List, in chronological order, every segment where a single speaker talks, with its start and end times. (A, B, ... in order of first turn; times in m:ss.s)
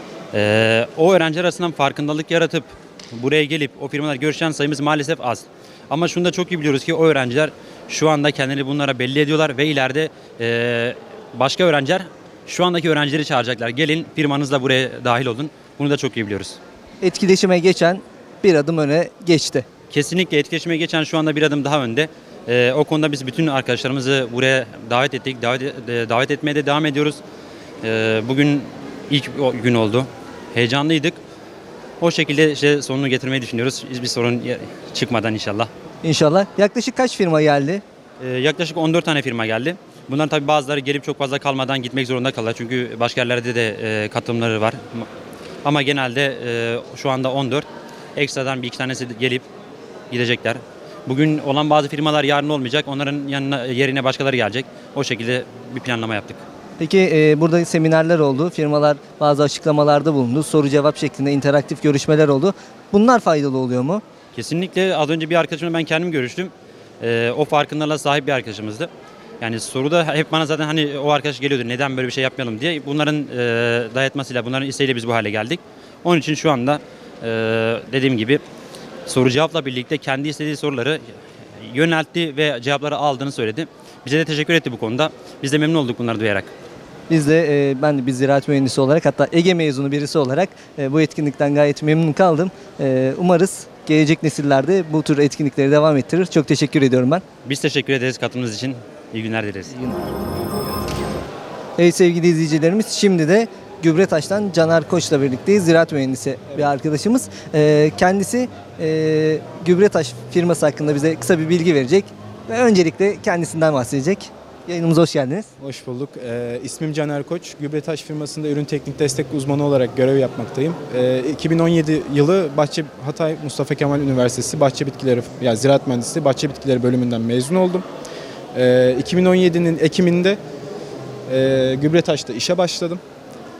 0:00.3-0:16.6 A
0:17.0-0:19.7 B
0:19.9-0:27.2 A
0:27.8-0:31.2 A
0:32.0-0:35.7 A
0:36.0-0:37.8 B
0:38.2-0:45.1 A
0:45.6-0:49.5 A
0:50.1-0:56.4 A
0:56.8-1:04.0 B
1:04.3-1:08.9 A
1:09.4-1:18.4 A
1:19.1-1:21.0 A
1:21.6-1:26.5 A
1:27.1-1:37.2 B
1:37.4-1:39.8 A
1:39.7-1:40.0 B
1:41.8-1:55.5 B
1:55.6-2:07.8 C
2:08.5-2:10.4 C
2:11.3-2:13.0 C